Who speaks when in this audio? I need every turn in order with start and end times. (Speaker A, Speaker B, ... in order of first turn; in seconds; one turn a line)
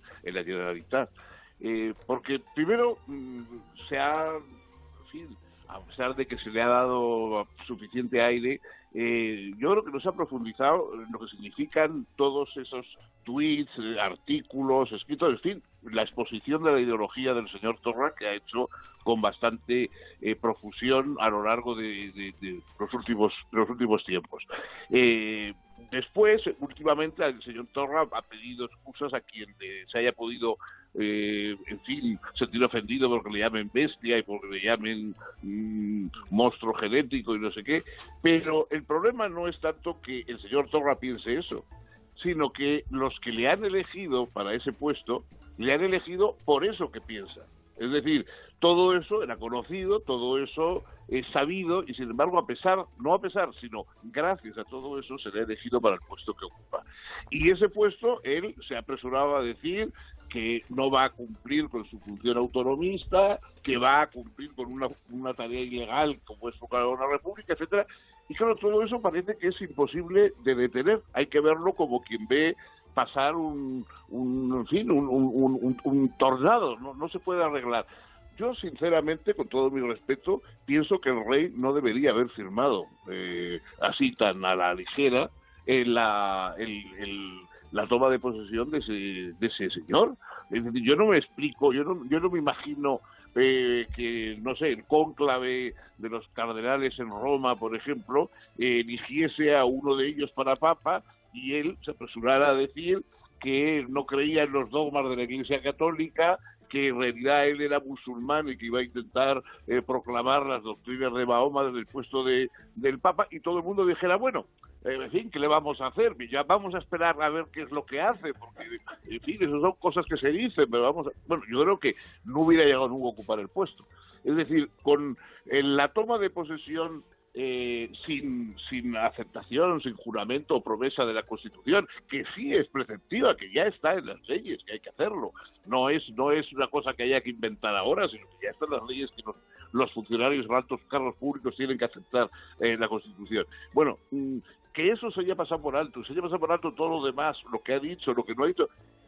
Speaker A: 0.2-4.4
Speaker A: 5.1-41.7
Speaker A: 42.2-148.7